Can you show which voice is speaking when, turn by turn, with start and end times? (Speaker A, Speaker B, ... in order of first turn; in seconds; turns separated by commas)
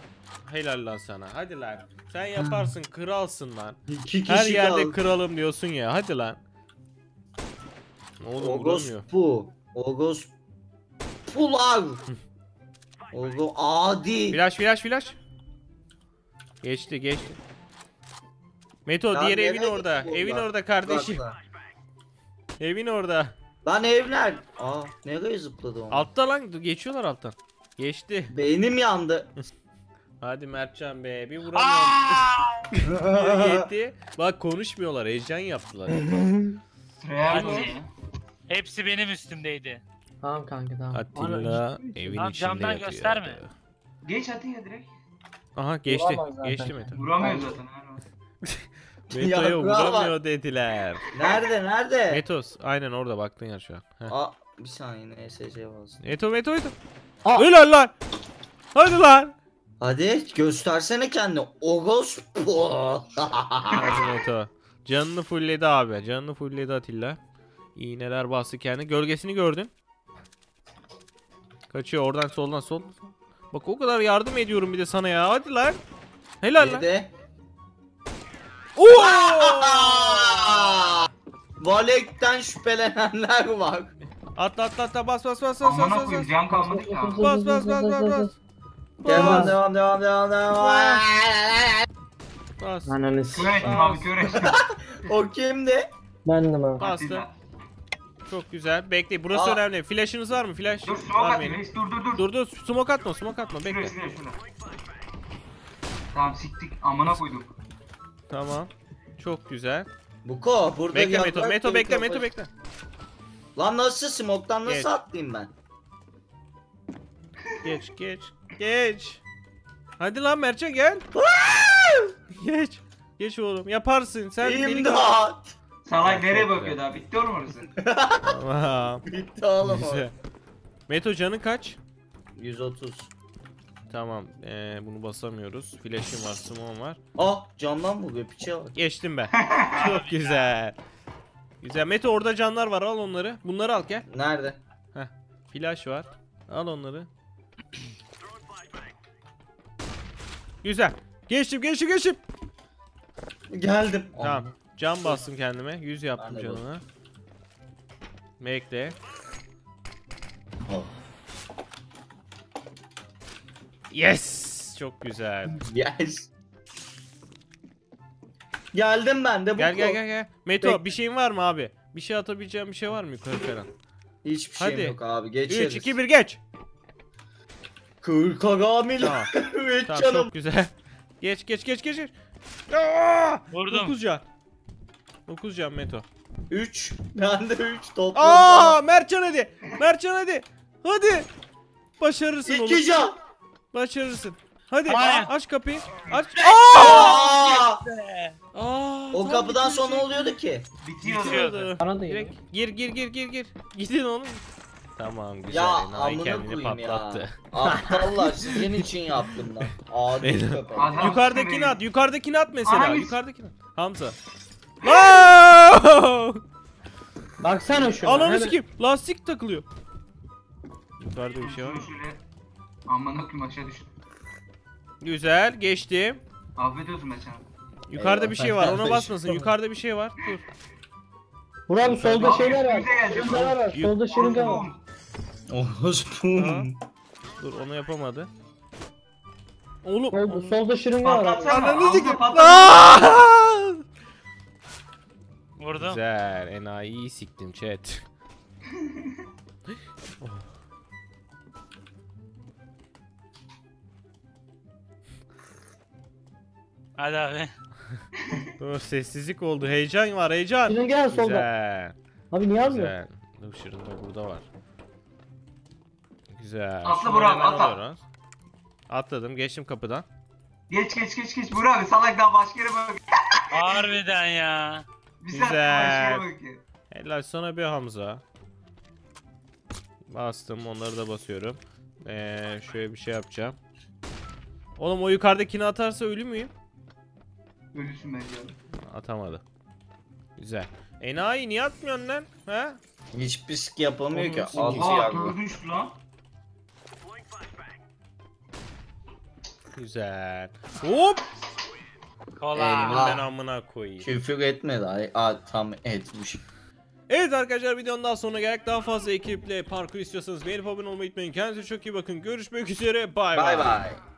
Speaker A: 0.5-3.8, Speaker B: 3.9-5.0, Speaker A: 4.3-6.4, Speaker A: 8.2-9.0, Speaker B: 8.4-10.3, Speaker B: 11.3-12.0, Speaker B: 13.1-14.4, Speaker A: 14.3-15.2, Speaker A: 16.6-17.4, Speaker A: 18.9-21.3, Speaker B: 19.1-21.4, Speaker A: 22.6-23.3, Speaker B: 23.6-26.1, Speaker A: 25.9-28.3, Speaker B: 28.3-29.3, Speaker A: 30.2-32.3, Speaker C: 31.5-32.7, Speaker B: 32.8-33.6, Speaker A: 32.8-36.0, Speaker D: 37.0-37.9, Speaker C: 37.3-37.8, Speaker A: 37.3-37.7, Speaker C: 38.5-39.8, Speaker E: 40.2-42.1, Speaker A: 40.9-43.5, Speaker C: 42.1-43.4, Speaker D: 44.0-44.9, Speaker A: 45.5-47.0, Speaker E: 45.9-47.5, Speaker D: 46.9-48.0, Speaker A: 48.4-51.1, Speaker B: 49.1-50.1, Speaker B: 51.1-52.2, Speaker A: 52.1-54.1, Speaker B: 54.1-56.0, Speaker A: 56.0-56.7, Speaker A: 57.4-57.9, Speaker A: 58.7-59.3, Speaker B: 59.8-64.0, Speaker A: 63.7-67.2, Speaker A: 67.8-69.7, Speaker A: 71.7-75.8, Speaker A: 76.4-76.8, Speaker B: 76.6-77.1, Speaker A: 78.8-81.0, Speaker B: 78.9-81.1, Speaker B: 81.6-83.9, Speaker A: 84.3-86.3, Speaker D: 85.6-87.2, Speaker E: 86.5-88.3, Speaker A: 87.2-88.3, Speaker A: 89.0-89.6, Speaker B: 89.0-91.8, Speaker E: 89.1-89.6, Speaker A: 90.5-91.0, Speaker A: 92.6-94.1, Speaker E: 92.8-93.6, Speaker D: 93.3-94.6, Speaker B: 94.3-95.9, Speaker E: 96.2-96.8, Speaker A: 96.8-97.2, Speaker D: 96.8-97.3, Speaker A: 98.2-101.6, Speaker B: 99.3-99.6, Speaker D: 100.8-102.2, Speaker A: 102.1-104.0, Speaker D: 103.6-104.4, Speaker D: 106.1-107.5, Speaker A: 108.3-109.9, Speaker B: 110.2-112.3, Speaker A: 110.9-112.5, Speaker B: 113.5-115.5, Speaker A: 114.7-114.9, Speaker A: 117.6-119.2, Speaker A: 120.0-121.0, Speaker B: 121.1-122.1, Speaker A: 122.3-125.1, Speaker B: 124.4-125.5, Speaker D: 125.8-127.7, Speaker A: 126.0-126.8, Speaker B: 127.8-128.4, Speaker A: 128.2-129.0, Speaker B: 129.1-130.1, Speaker A: 129.6-130.1, Speaker A: 130.9-131.8, Speaker B: 132.3-133.1, Speaker A: 133.9-137.0, Speaker B: 137.2-138.8, Speaker A: 138.7-140.8, Speaker D: 139.3-139.9, Speaker C: 139.8-140.5, Speaker A: 141.6-144.0, Speaker B: 144.1-144.6, Speaker A: 144.9-147.1, Speaker A: 150.6-152.2, Speaker B: 153.5-154.5, Speaker A: 154.2-156.8, Speaker B: 156.2-156.7, Speaker A: 158.4-158.9, Speaker B: 160.6-160.9, Speaker A: 163.9-165.6, Speaker B: 165.6-166.3, Speaker B: 168.7-170.0, Speaker A: 169.6-173.7, Speaker B: 170.6-170.9, Speaker B: 174.2-176.0, Speaker A: 174.6-175.0, Speaker A: 175.5-176.4, Speaker B: 178.0-180.3, Speaker A: 179.0-179.3, Speaker A: 179.9-182.1, Speaker A: 182.7-184.2, Speaker C: 183.5-183.9, Speaker A: 185.3-186.0, Speaker B: 186.5-188.8, Speaker A: 188.1-191.3, Speaker A: 192.0-192.8, Speaker B: 192.4-193.1, Speaker A: 193.7-197.3, Speaker D: 194.9-195.2, Speaker C: 194.9-195.3, Speaker C: 196.3-198.4, Speaker B: 196.7-197.8, Speaker A: 198.5-199.7, Speaker B: 199.1-200.7, Speaker D: 199.7-200.2, Speaker D: 200.8-201.7, Speaker A: 201.0-204.4, Speaker C: 201.3-201.6, Speaker E: 201.8-202.3, Speaker A: 205.0-207.4, Speaker B: 205.5-211.0, Speaker E: 207.6-208.2, Speaker A: 210.2-214.2, Speaker D: 210.7-211.8, Speaker D: 212.6-213.2, Speaker D: 214.8-215.1, Speaker A: 214.8-216.4, Speaker E: 217.4-218.6, Speaker A: 218.0-219.7, Speaker A: 221.0-221.9, Speaker D: 221.4-222.2, Speaker D: 222.9-223.9, Speaker A: 225.0-226.2, Speaker D: 226.6-227.4, Speaker A: 227.9-230.4, Speaker B: 227.9-229.3, Speaker E: 231.7-234.7, Speaker A: 231.8-232.3, Speaker D: 232.1-234.8, Speaker A: 233.5-234.0, Speaker B: 235.5-236.7, Speaker A: 236.3-236.7, Speaker A: 237.4-238.3, Speaker A: 239.8-240.6, Speaker E: 240.1-241.6, Speaker D: 241.0-243.1, Speaker A: 241.5-243.8, Speaker C: 245.6-246.0, Speaker A: 245.7-248.0, Speaker A: 250.2-250.5, Speaker C: 257.0-257.5, Speaker A: 258.6-261.9, Speaker E: 260.6-261.5, Speaker E: 262.3-262.9, Speaker A: 262.6-264.4, Speaker A: 266.3-268.0, Speaker D: 266.8-267.8, Speaker A: 268.9-270.1, Speaker D: 270.7-273.9, Speaker C: 273.5-274.9, Speaker D: 275.2-276.6, Speaker A: 275.3-276.3, Speaker A: 276.9-278.2, Speaker A: 280.1-283.6, Speaker A: 284.8-286.5, Speaker D: 287.7-288.6, Speaker A: 288.9-289.4, Speaker A: 290.4-292.8, Speaker B: 293.1-295.4, Speaker A: 294.1-294.8, Speaker E: 294.2-294.5, Speaker D: 294.5-295.9, Speaker A: 299.7-301.2, Speaker C: 302.4-303.2, Speaker B: 302.5-303.2, Speaker A: 302.9-304.1, Speaker B: 304.0-306.4, Speaker A: 307.1-313.9, Speaker B: 313.3-314.0